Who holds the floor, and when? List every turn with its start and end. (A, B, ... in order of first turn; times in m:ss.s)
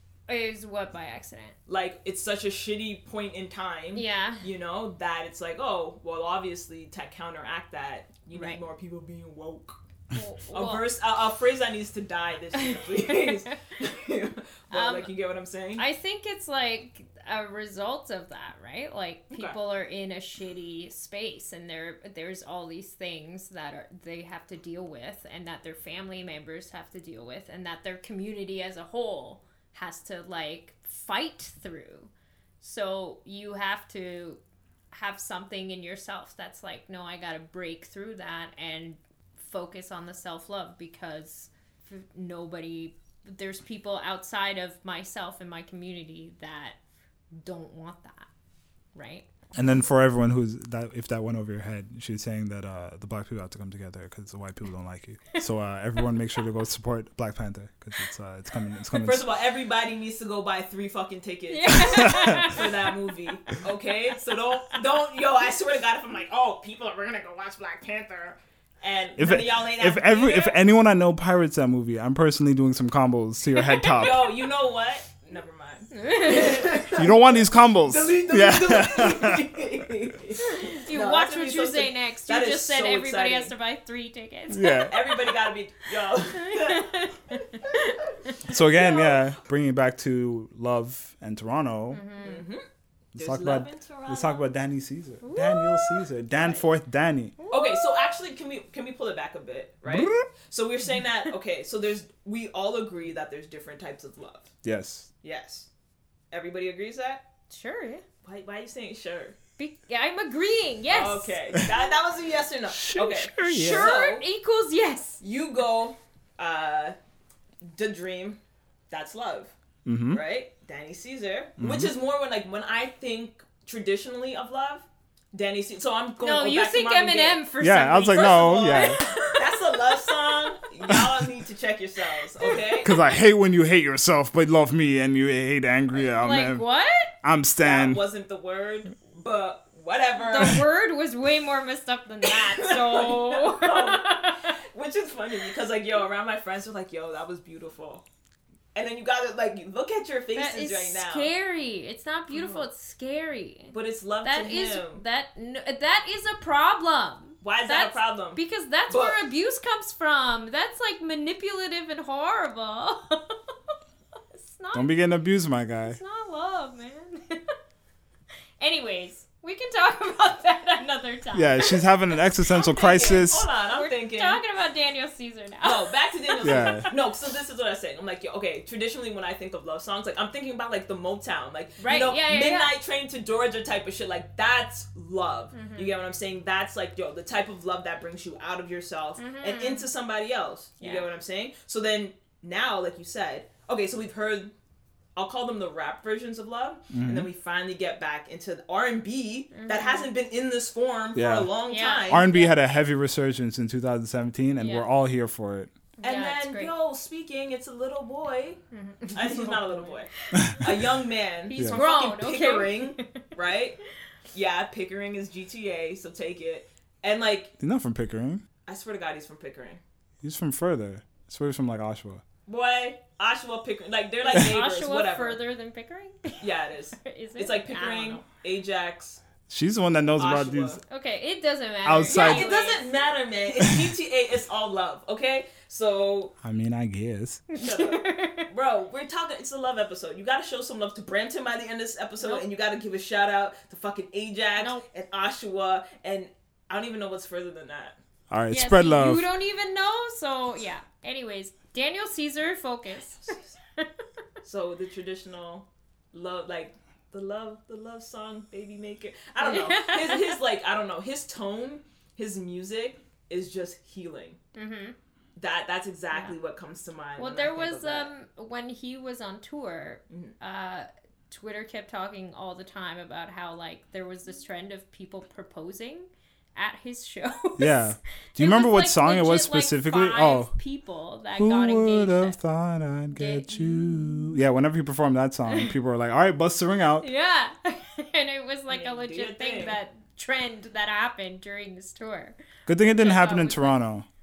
0:00.3-0:01.6 A
0:01.7-0:09.8 B
0:03.9-0:04.4 A
0:08.3-0:08.6 A
0:10.1-0:10.8 A
0:10.5-0:15.8 B
0:12.6-0:13.5 A
0:14.7-0:15.1 A
0:15.8-0:32.1 A
0:19.3-0:19.6 B
0:32.6-0:34.4 A
0:34.9-0:46.8 A
0:47.4-0:48.3 A
0:48.9-0:49.3 A
0:49.5-0:59.2 C
0:58.9-1:10.6 B
1:01.5-1:02.9 A
1:01.7-1:02.5 C
1:09.2-1:14.3 C
1:13.5-1:14.0 A
1:13.8-1:23.5 B
1:15.9-1:17.0 A
1:16.9-1:19.8 C
1:20.4-1:25.3 A
1:24.5-1:24.9 C
1:24.9-1:27.9 B
1:26.1-1:28.5 A
1:28.5-1:32.1 C
1:28.5-1:29.3 B
1:31.9-1:32.4 A
1:32.2-1:32.6 B
1:33.1-1:34.4 B
1:33.1-1:37.3 C
1:35.2-1:36.6 A
1:37.4-1:38.2 A
1:37.5-1:44.5 B
1:39.8-1:40.3 C
1:44.6-1:45.1 C
1:45.2-1:45.7 B
1:46.3-1:47.2 B
1:47.5-1:48.0 A
1:48.2-1:49.4 B
1:49.6-1:51.6 A
1:50.9-1:54.2 B
1:52.7-1:54.0 C
1:53.4-1:55.2 A
1:55.2-1:57.0 B
1:57.6-1:58.4 B
1:58.9-1:59.5 B
1:59.8-2:00.2 C
2:00.1-2:07.4 B
2:01.6-2:01.9 C
2:06.2-2:10.6 A
2:07.6-2:09.0 C
2:08.0-2:12.9 B
2:12.4-2:13.0 A
2:12.8-2:16.6 C
2:15.9-2:17.1 A
2:17.2-2:18.0 C
2:17.6-2:20.6 B
2:20.2-2:24.5 A
2:22.2-2:28.0 B
2:28.7-2:31.3 B
2:30.3-2:43.7 A
2:32.3-2:32.6 B
2:33.7-2:35.0 B
2:37.4-2:39.2 B
2:44.3-2:45.1 A
2:44.7-2:46.0 C
2:45.8-2:47.5 A
2:48.6-2:57.0 A
2:51.3-2:53.5 C
2:52.6-2:54.4 B
2:55.6-3:14.5 B
2:56.4-2:56.9 C
3:01.8-3:02.7 A
3:05.5-3:05.9 A
3:09.2-3:09.9 A
3:10.8-3:11.1 A
3:15.2-3:22.3 B
3:16.9-3:17.3 C
3:19.5-3:20.1 A
3:21.1-3:21.5 C
3:21.7-3:22.6 A
3:22.1-3:25.7 C
3:24.6-3:24.9 A
3:26.0-3:26.7 A
3:26.0-3:28.6 B
3:28.7-3:30.6 A
3:29.1-3:33.8 B
3:30.3-3:30.9 C
3:31.5-3:33.2 A
3:31.5-3:31.8 C
3:34.3-3:37.5 B
3:37.6-3:38.4 C
3:38.6-3:39.8 B
3:40.2-3:42.2 C
3:42.4-3:45.4 B
3:44.3-3:46.5 A
3:46.4-3:49.2 B
3:47.0-3:48.2 A
3:49.5-3:50.8 C
3:50.2-3:50.8 B
3:50.9-3:52.9 A
3:51.8-3:52.6 C
3:52.1-3:56.3 B
3:56.4-3:57.4 C
3:57.5-3:58.5 A
3:57.6-4:08.0 B
4:04.6-4:04.8 A
4:08.3-4:09.3 C
4:08.5-4:13.9 A
4:13.2-4:13.5 B
4:14.4-4:24.4 B
4:19.4-4:20.4 A
4:24.5-4:25.0 A
4:25.4-4:28.1 B
4:27.2-4:42.4 A
4:30.1-4:30.4 B
4:37.6-4:40.5 C
4:41.4-4:47.1 C
4:43.1-4:44.3 A
4:45.5-4:45.7 A
4:47.0-4:53.8 A
4:48.7-4:49.8 B
4:52.7-4:54.0 C